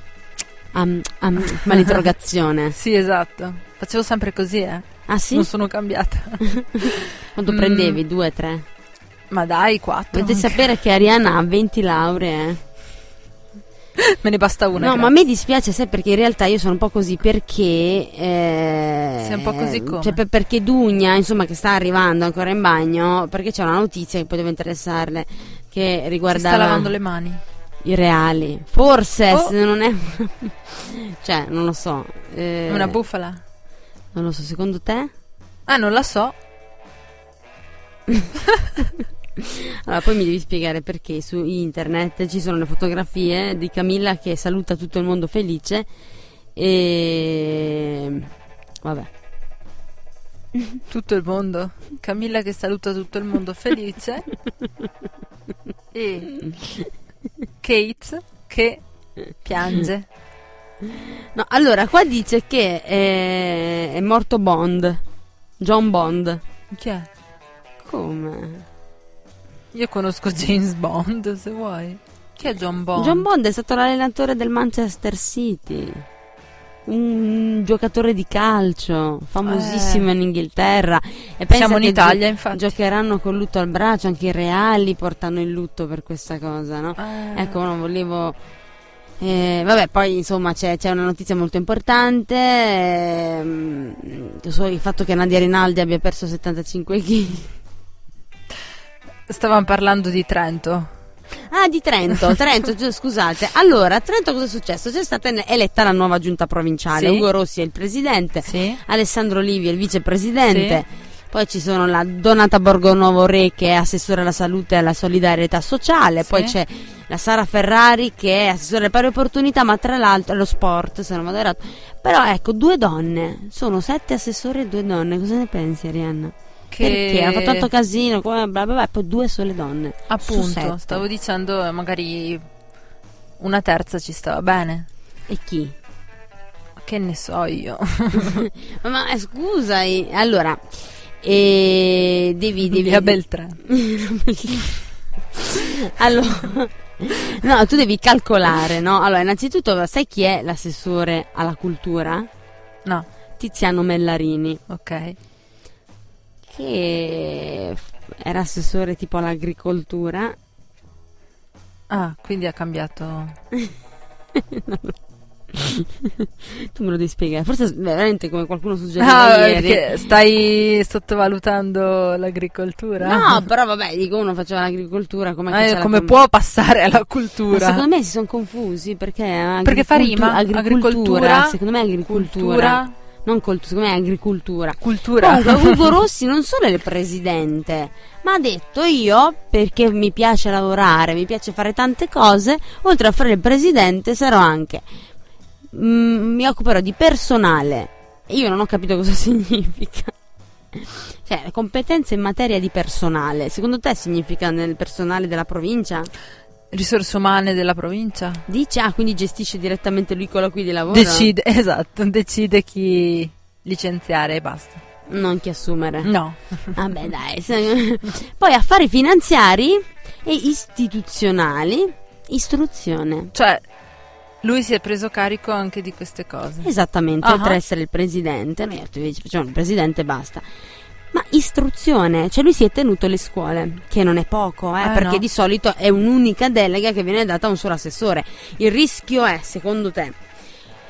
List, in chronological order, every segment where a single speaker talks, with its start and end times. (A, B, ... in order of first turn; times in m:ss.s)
0:00.7-0:02.8 A
0:02.7-0:08.0 B
0:05.1-0:05.5 A
0:06.5-0:08.6 A
0:09.3-0:10.6 B
0:10.1-0:12.6 A
0:14.0-0:15.1 B
0:14.8-0:26.9 A
0:19.2-0:20.2 B
0:26.3-0:27.4 B
0:27.8-0:33.0 A
0:32.7-0:33.4 B
0:34.1-0:35.1 A
0:35.7-0:36.4 B
0:38.1-0:45.9 A
0:46.6-0:48.3 A
0:48.8-0:49.1 A
0:50.9-0:54.3 B
0:55.9-0:56.4 B
0:57.6-0:58.8 B
0:59.4-1:00.1 B
1:00.9-1:05.0 A
1:05.6-1:06.4 A
1:06.7-1:07.1 B
1:07.8-1:08.7 A
1:09.7-1:13.2 B
1:13.0-1:16.0 A
1:16.9-1:28.4 A
1:19.4-1:20.1 B
1:21.5-1:22.7 B
1:27.0-1:27.6 B
1:29.2-1:37.5 A
1:39.3-1:40.9 B
1:41.5-2:11.0 A
1:46.9-1:47.3 B
1:48.4-1:48.8 B
1:50.5-1:50.8 B
1:56.3-1:56.5 B
2:06.7-2:07.7 B
2:10.1-2:12.4 B
2:13.4-2:14.9 B
2:15.3-2:15.8 A
2:16.8-2:18.5 B
2:18.2-2:20.6 A
2:21.2-2:24.7 A
2:22.7-2:23.6 B
2:25.3-2:32.3 A
2:33.4-2:34.6 A
2:34.7-2:35.2 B
2:36.5-2:40.4 A
2:41.9-2:43.4 B
2:44.3-2:45.0 A
2:45.5-2:49.9 A
2:49.0-2:53.4 B
2:53.0-2:56.2 A
2:55.5-2:57.8 B
2:57.5-3:14.8 A
2:59.6-3:01.6 B
3:02.1-3:02.9 B
3:04.8-3:05.9 B
3:15.7-3:20.2 A
3:20.7-3:26.1 A
3:26.7-3:28.5 B
3:28.5-3:31.3 A
3:30.9-3:34.8 B
3:35.1-3:36.1 A
3:36.0-3:36.8 B
3:36.7-3:43.3 A
3:43.3-3:43.6 B
3:44.4-3:46.7 B
3:46.6-3:50.5 A
3:47.2-3:47.6 B
3:51.1-4:00.2 A
3:54.8-3:55.2 B